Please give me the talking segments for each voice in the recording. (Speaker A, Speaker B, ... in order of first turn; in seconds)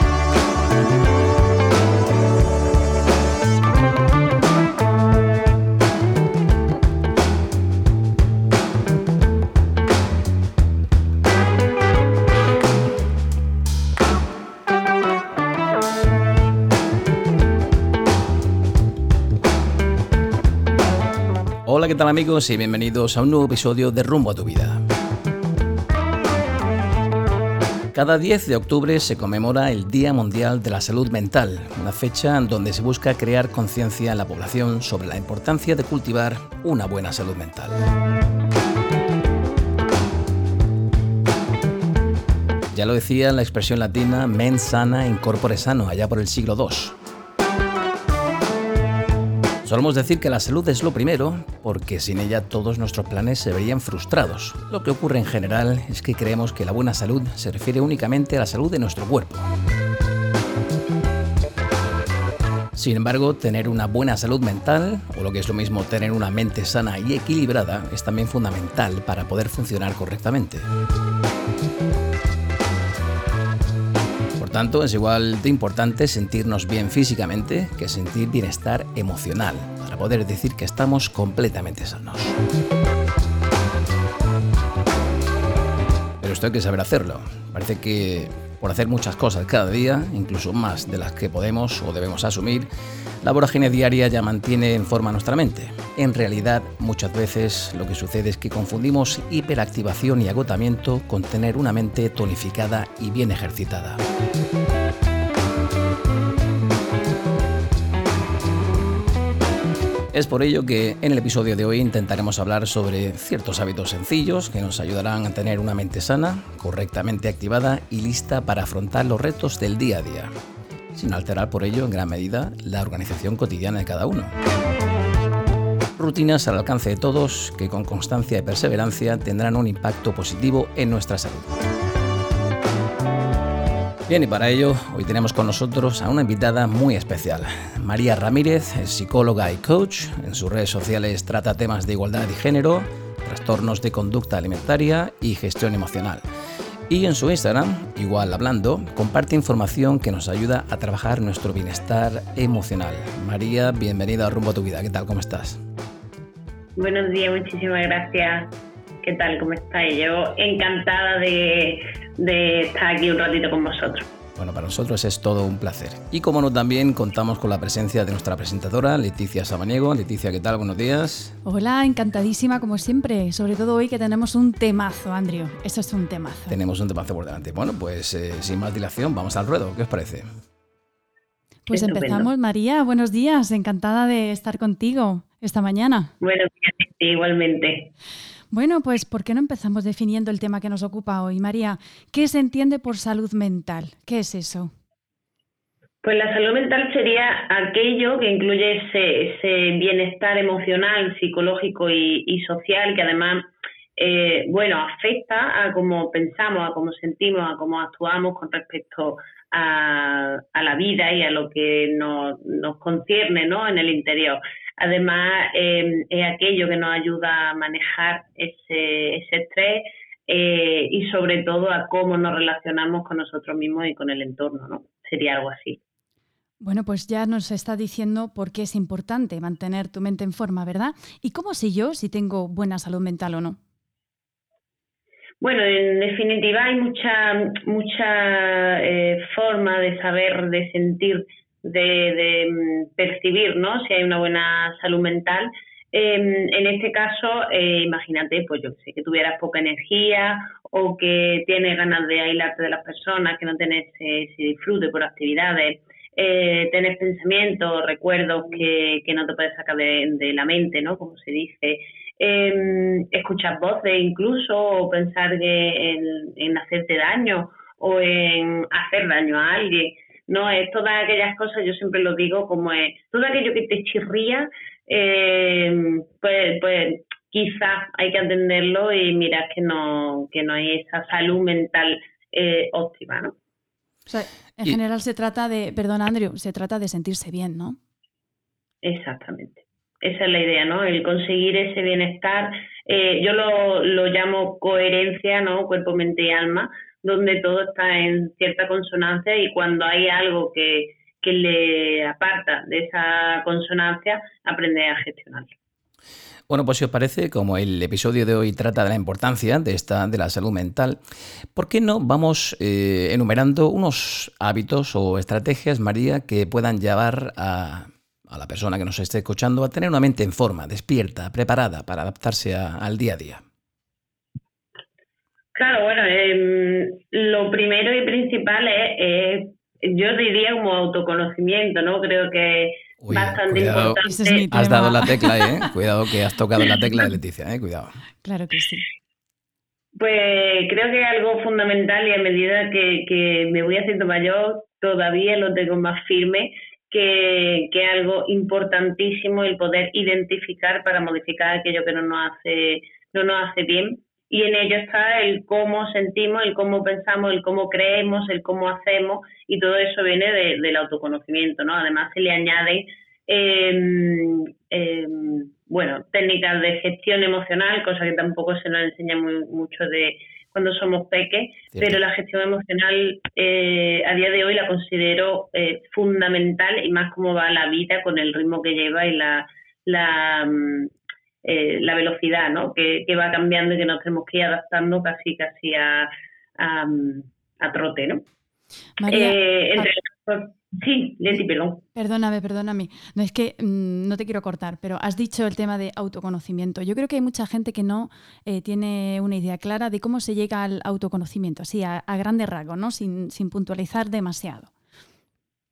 Speaker A: 21.6-24.8, 27.9-37.8, 42.7-47.0, 49.6-59.5, 62.7-70.7, 74.4-82.4, 86.2-92.7, 93.2-104.0, 110.1-120.3, 120.9-124.3, 126.0-131.5, 134.1-146.2, 146.9-155.6, 164.3-171.4, 176.5-180.2, 306.5-311.0, 311.5-323.4, 333.0-338.0, 371.7-372.0
Speaker B: 156.8-158.5, 159.0-164.1, 181.7-182.3, 186.2-187.9, 196.0-203.4, 204.0-225.8, 235.4-283.3, 288.8-305.5, 325.5-334.5, 339.9-380.9, 381.4-388.2, 389.1-391.8
Speaker C: 171.4-176.5, 181.7-186.1, 188.5-194.7, 226.6-233.6, 284.1-287.8, 334.0-335.6, 338.2-338.9, 389.0-389.9, 391.9-404.7